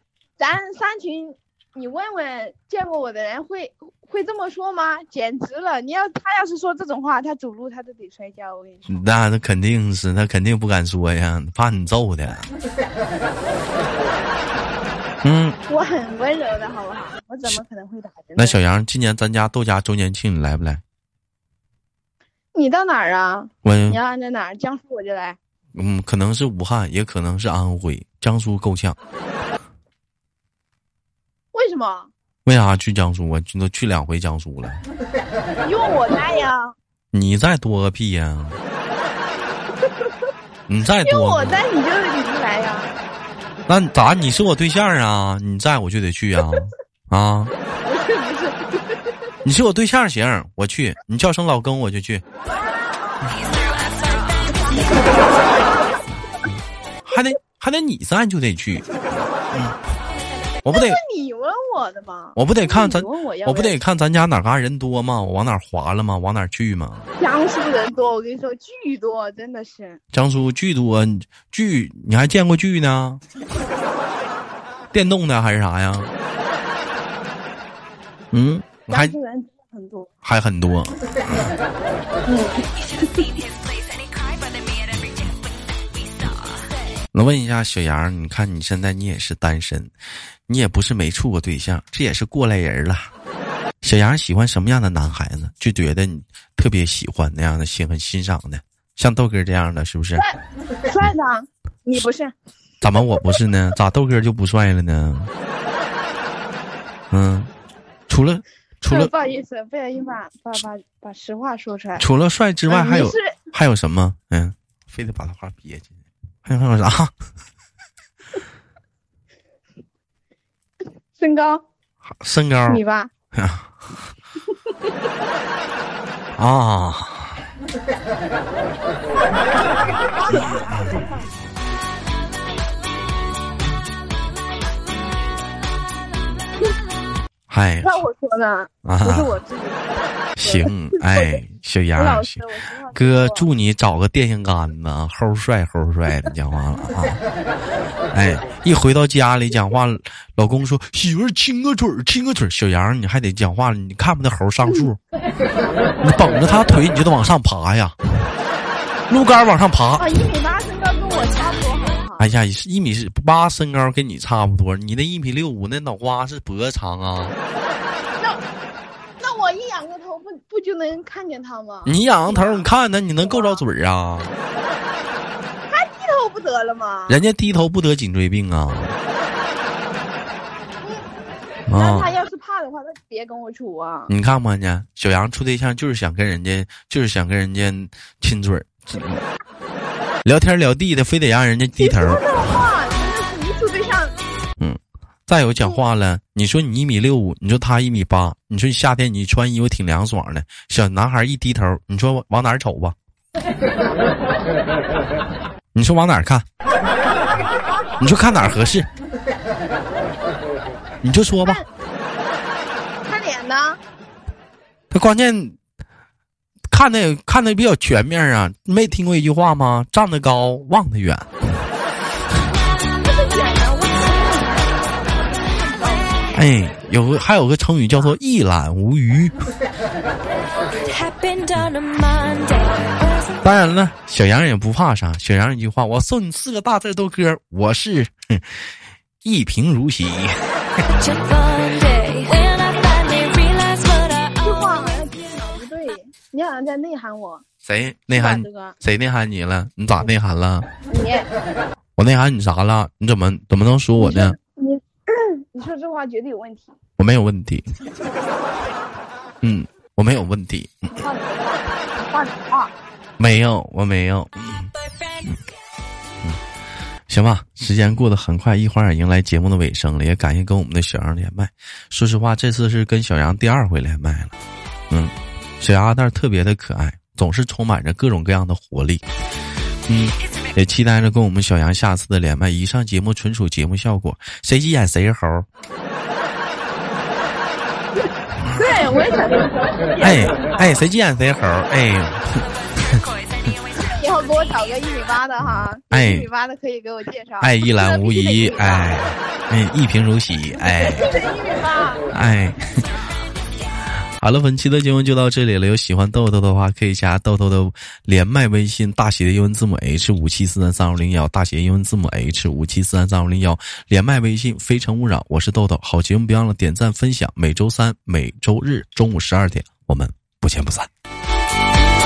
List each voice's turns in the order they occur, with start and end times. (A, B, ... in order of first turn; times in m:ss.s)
0:00.4-0:09.0 A
0:08.9-0:12.5 B
0:15.2-0:15.6 B
0:15.7-0:18.6 A
0:18.4-0:20.8 B
0:22.5-0:25.4 A
0:23.6-0:24.0 B
0:25.7-0:29.0 B
0:31.5-0:32.1 A
0:32.4-0:34.8 B
0:35.6-0:36.8 A
0:37.1-0:38.6 B
0:39.8-0:40.1 A
0:40.7-0:41.6 B
0:41.0-0:43.0 A
0:43.7-0:47.5 B
0:47.9-0:48.8 A
0:49.4-0:52.2 B
0:53.2-0:54.7 C
0:54.5-0:55.5 A
0:57.0-0:58.9 B
0:59.5-0:59.8 B
1:00.6-1:03.8 A
1:00.6-1:01.0 B
1:02.4-1:07.1 B
1:07.2-1:10.0 A
1:10.1-1:13.2 B
1:14.9-1:16.1 B
1:18.3-1:19.2 B
1:18.9-1:20.1 A
1:20.2-1:21.5 B
1:22.3-1:22.6 A
1:22.7-1:26.7 C
1:27.1-1:29.9 B
1:30.5-1:33.1 B
1:33.8-1:40.2 B
1:40.2-1:42.4 A
1:42.8-1:45.3 B
1:47.1-1:47.5 B
1:48.1-1:49.1 B
1:48.9-1:52.1 A
1:52.0-1:55.9 B
1:52.7-1:53.4 A
1:56.4-1:57.1 B
2:01.2-2:01.6 A
2:02.2-2:02.8 B
2:02.7-2:03.1 A
2:03.3-2:03.7 B
2:06.4-2:07.4 B
2:10.3-2:10.8 A
2:17.5-2:18.0 B
2:17.8-2:21.4 A
2:18.8-2:19.4 B
2:20.4-2:27.2 B
2:22.0-2:23.5 A
2:28.1-2:35.0 B
2:36.0-2:38.0 B
2:39.1-2:40.3 B
2:40.0-2:42.3 A
2:42.2-2:47.4 B
2:49.2-2:52.7 A
2:51.9-2:54.3 B
2:53.2-2:53.6 A
2:55.7-2:57.2 A
2:57.1-2:59.0 B
3:01.7-3:02.1 B
3:01.7-3:04.1 A
3:04.1-3:09.2 B
3:10.2-3:12.2 B
3:11.8-3:14.1 A
3:14.6-3:23.0 B
3:25.7-3:26.4 B
3:28.0-3:28.9 B
3:31.0-3:31.6 B
3:33.1-3:33.8 A
3:34.9-3:35.6 B
3:36.7-3:41.3 B
3:43.0-3:46.2 A
3:46.3-3:49.4 B
3:50.6-3:53.6 C
3:53.4-3:58.7 B
3:59.2-4:00.9 B
4:00.9-4:04.7 C
4:04.4-4:07.4 A
4:07.6-4:10.7 B
4:08.1-4:08.8 A
4:10.9-4:11.3 A
4:12.0-4:14.4 B
4:14.0-4:16.8 A
4:17.0-4:17.6 B
4:19.4-4:21.0 B
4:20.9-4:22.7 A
4:23.2-4:24.7 B
4:27.1-4:34.3 B
4:34.9-4:39.0 B
4:39.9-4:45.5 B
4:48.4-4:48.9 B
4:48.5-4:50.8 A
4:50.0-4:53.0 B
4:52.7-4:54.9 C
4:53.7-4:59.0 A
4:55.9-4:56.3 B
4:57.4-5:01.1 B
5:00.6-5:02.1 A
5:02.1-5:02.8 B
5:04.2-5:20.9 B